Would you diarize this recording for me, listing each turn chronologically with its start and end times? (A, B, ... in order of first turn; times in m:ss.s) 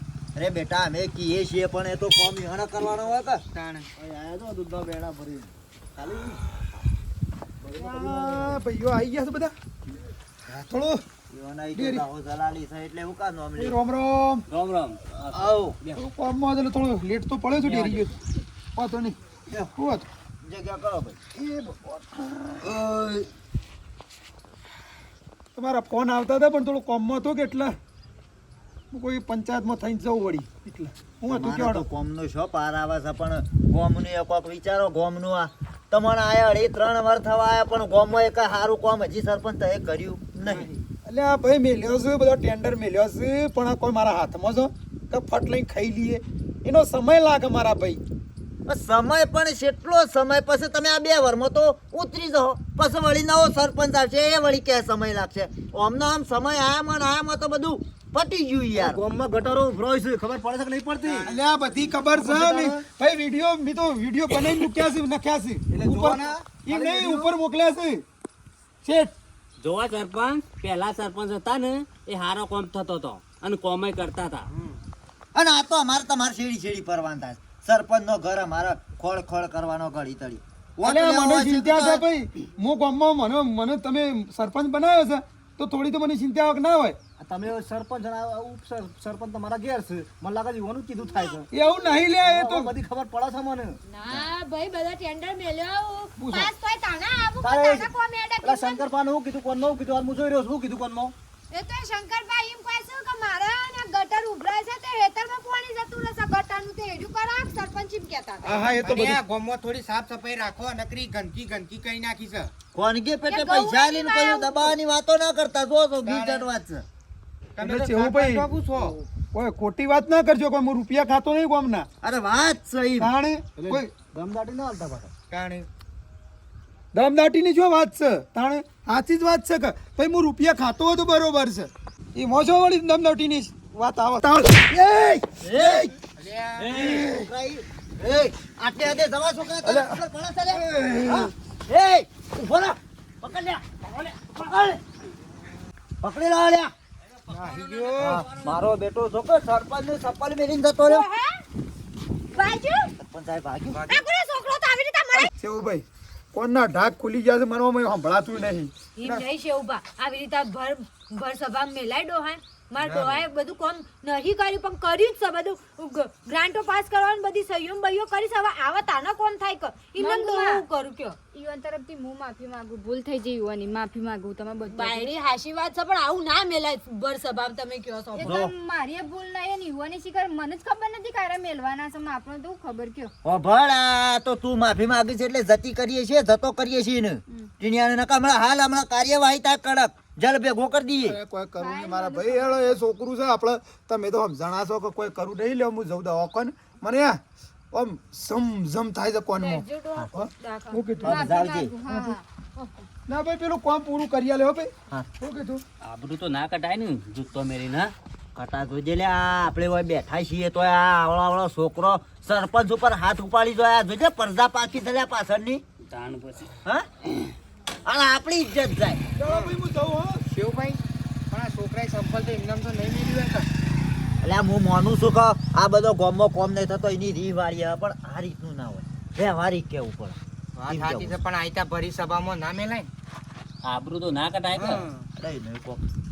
0:00.4-0:03.4 A
0:03.5-0:03.9 B
0:04.0-0:06.4 C
0:07.6-0:08.6 C
0:07.8-0:09.5 D
0:10.5-0:11.0 D
0:11.3-0:13.8 A
0:11.7-0:12.0 D
0:13.6-0:14.5 D
0:14.5-0:16.0 E
0:15.3-0:15.8 A
0:16.0-0:18.1 D
0:17.6-0:18.1 E
0:18.8-0:19.2 D
0:19.8-0:20.1 D
0:20.4-0:21.2 A
0:21.4-0:23.2 D
0:25.6-0:27.8 D
0:28.9-0:31.9 D
0:31.2-0:40.7 A
0:40.4-0:48.0 D
0:48.7-0:59.0 A
0:58.7-1:01.3 C
1:01.0-1:01.4 A
1:01.2-1:08.0 D
1:02.1-1:02.8 C
1:05.7-1:07.4 C
1:08.8-1:09.1 D
1:09.6-1:14.5 E
1:15.4-1:22.0 A
1:20.8-1:27.0 D
1:27.2-1:31.5 C
1:31.5-1:32.7 D
1:32.2-1:34.3 C
1:33.9-1:38.8 F
1:36.2-1:36.5 D
1:37.4-1:37.9 C
1:38.4-1:41.1 C
1:41.5-1:48.7 F
1:48.4-1:49.2 D
1:48.8-1:52.5 B
1:52.7-1:56.8 A
1:53.3-1:54.8 F
1:56.0-1:56.5 B
1:57.6-1:59.0 B
1:57.6-1:58.5 D
1:59.2-2:01.9 D
2:02.0-2:03.1 A
2:03.0-2:03.9 D
2:03.6-2:05.1 C
2:05.3-2:05.7 B
2:06.9-2:16.0 D
2:15.4-2:15.9 A
2:16.2-2:16.8 B
2:16.6-2:24.8 A
2:16.9-2:17.3 D
2:19.6-2:20.0 D
2:20.7-2:21.3 D
2:26.0-2:26.7 A
2:27.3-2:28.1 D
2:27.3-2:28.2 E
2:28.0-2:31.1 A
2:30.9-2:31.4 F
2:32.3-2:32.9 F
2:33.0-2:34.0 A
2:33.9-2:35.3 F
2:35.4-2:39.3 D
2:39.0-2:51.2 F
2:42.8-2:43.2 B
2:50.0-2:50.6 G
2:51.3-2:55.1 G
2:54.7-2:58.4 F
2:58.2-3:03.1 G
2:58.2-2:58.5 A
3:03.2-3:11.2 A
3:11.0-3:17.2 D
3:11.6-3:12.8 G
3:17.7-3:21.2 D
3:19.4-3:21.3 F
3:21.0-3:21.7 A
3:21.1-3:22.2 G
3:21.9-3:22.7 F
3:23.1-3:25.6 D
3:25.8-3:27.9 E
3:28.4-3:35.6 A
3:35.8-3:36.5 E
3:37.8-3:39.0 A
3:39.2-3:40.2 D
3:39.2-3:39.6 B
3:40.3-3:43.5 B
3:44.2-3:51.2 A
3:50.6-3:52.9 B
3:53.6-3:54.9 E
3:54.6-3:55.0 B
3:55.2-3:55.9 A